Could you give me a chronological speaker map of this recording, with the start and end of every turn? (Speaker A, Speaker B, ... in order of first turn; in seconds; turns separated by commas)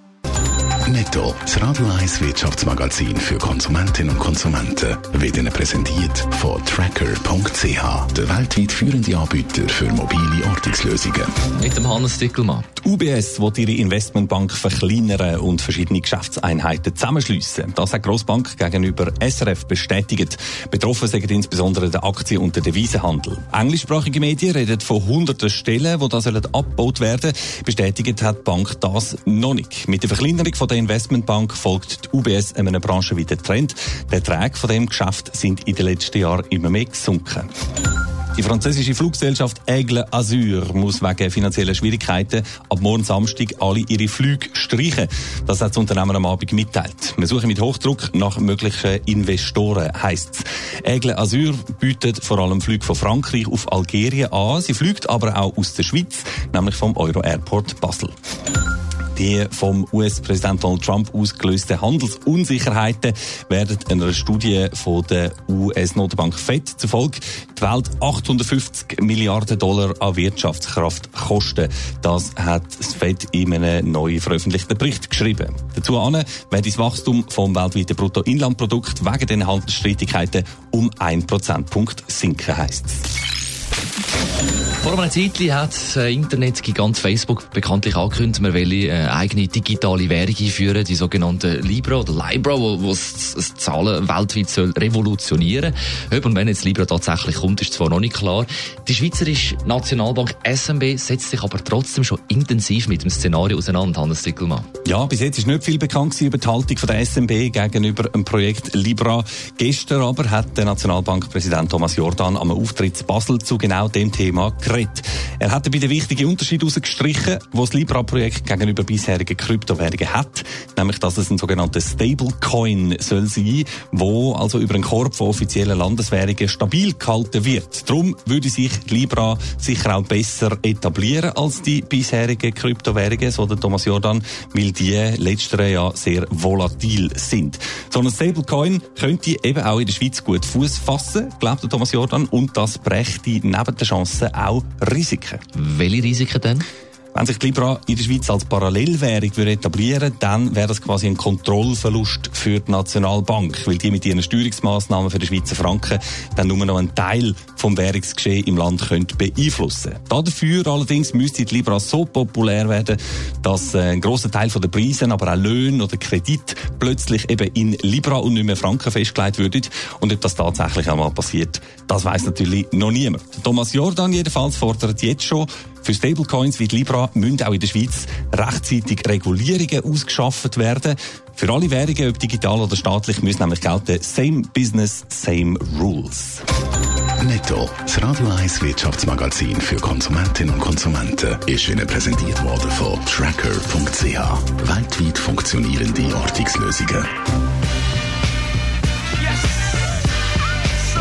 Speaker A: 0.8-11.3, Speaker B: 11.5-12.7, Speaker C: 12.8-37.5, Speaker C: 38.4-58.1, Speaker C: 59.1-83.0, Speaker B: 84.8-104.7, Speaker C: 104.8-145.4, Speaker B: 145.5-146.7, Speaker C: 147.1-186.4, Speaker A: 187.2-197.1